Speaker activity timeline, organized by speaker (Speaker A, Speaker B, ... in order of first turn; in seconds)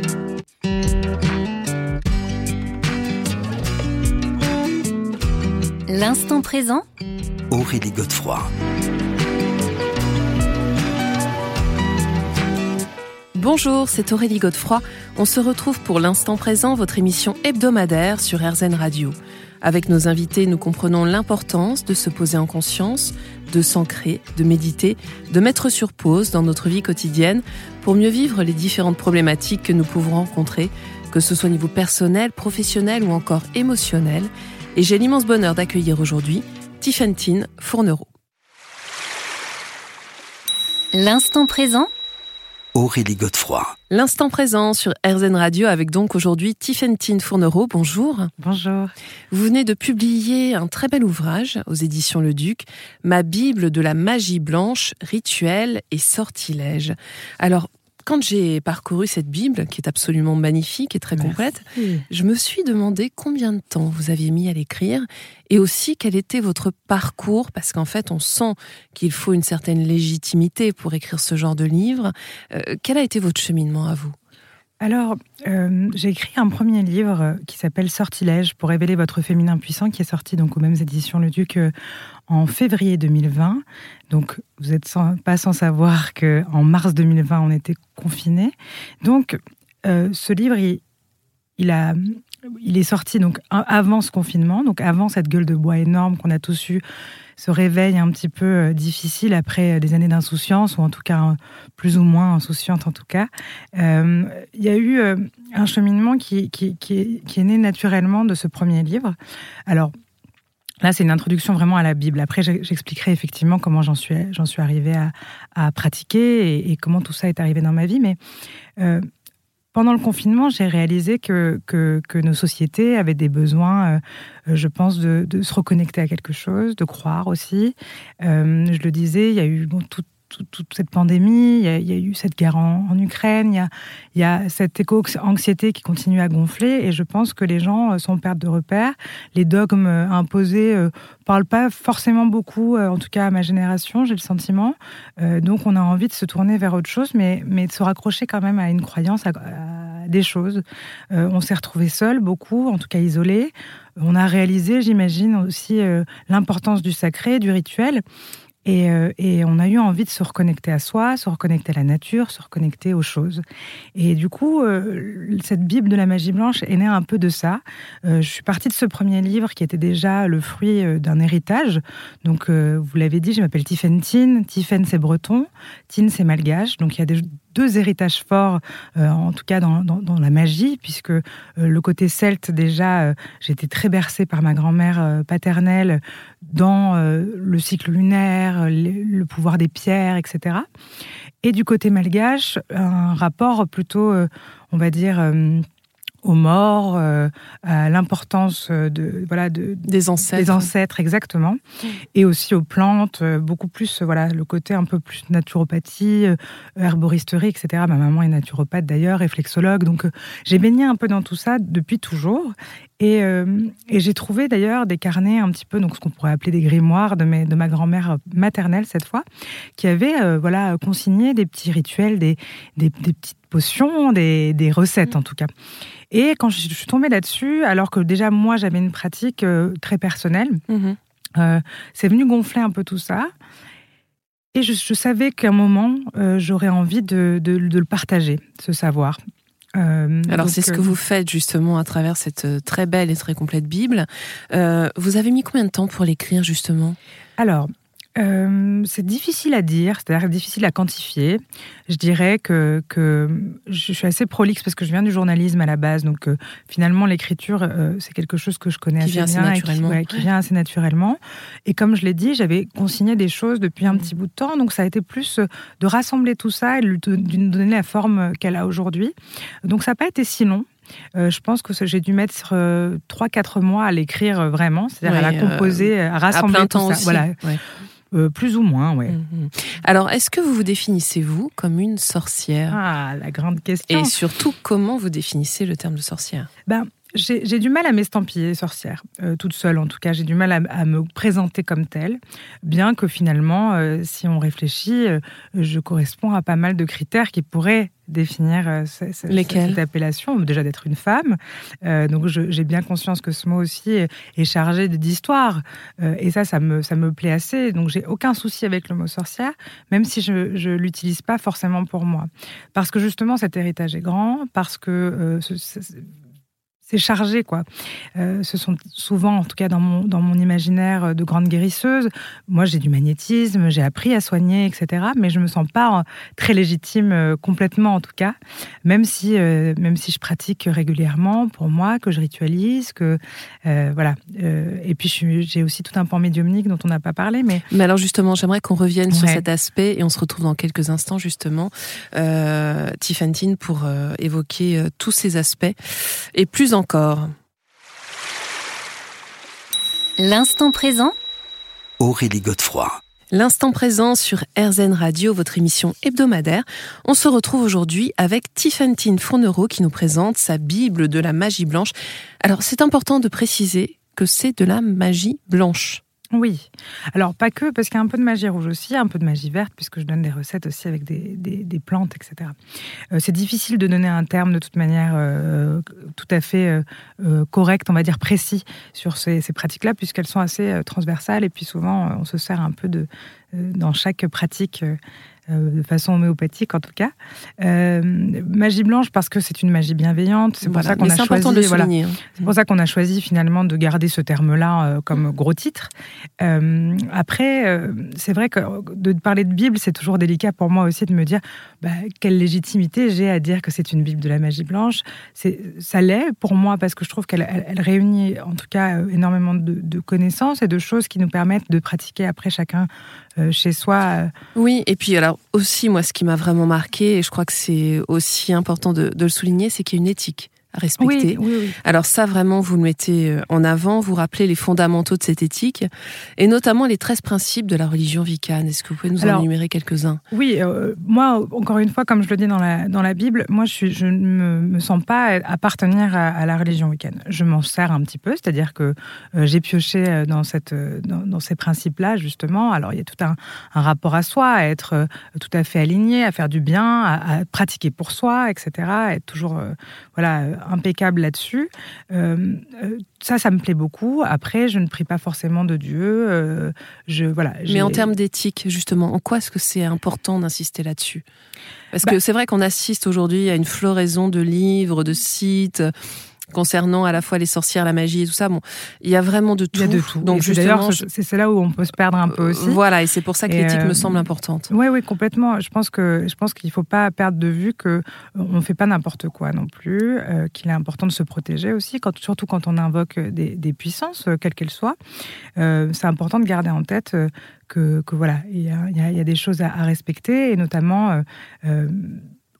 Speaker A: 5.9-6.8, 40.9-41.9, 350.2-351.1
Speaker B: 7.5-8.5, 42.8-43.7, 352.0-353.0
Speaker C: 13.3-38.1, 43.9-48.3, 49.3-74.2, 199.8-200.7, 230.7-231.0, 240.3-247.0, 259.0-260.3, 275.0-277.6, 279.1-282.8, 283.9-286.5, 299.3-299.8, 337.7-347.3, 353.3-366.0, 390.6-392.5, 414.6-430.2, 457.7-461.2, 461.9-465.9, 466.5-471.1, 472.3-474.7
Speaker D: 48.4-48.9, 61.1-62.0, 74.8-81.7, 82.3-90.8, 91.6-96.8, 97.4-109.2, 109.7-109.9, 110.8-118.2, 118.8-119.1, 119.7-158.0, 158.7-163.4, 163.9-190.7, 191.4-195.6, 196.2-201.6, 202.2-219.2, 219.8-225.5, 226.1-230.6, 231.4-233.3, 234.5-239.2, 239.8-240.9, 247.4-277.4, 278.1-279.2, 282.7-284.2, 286.7-316.1, 316.9-337.6, 339.1-339.5, 366.3-372.6, 373.1-385.0, 385.5-414.3, 421.0-421.8, 429.2-429.5, 430.3-458.1, 469.7-472.8, 473.5-485.0, 485.6-492.2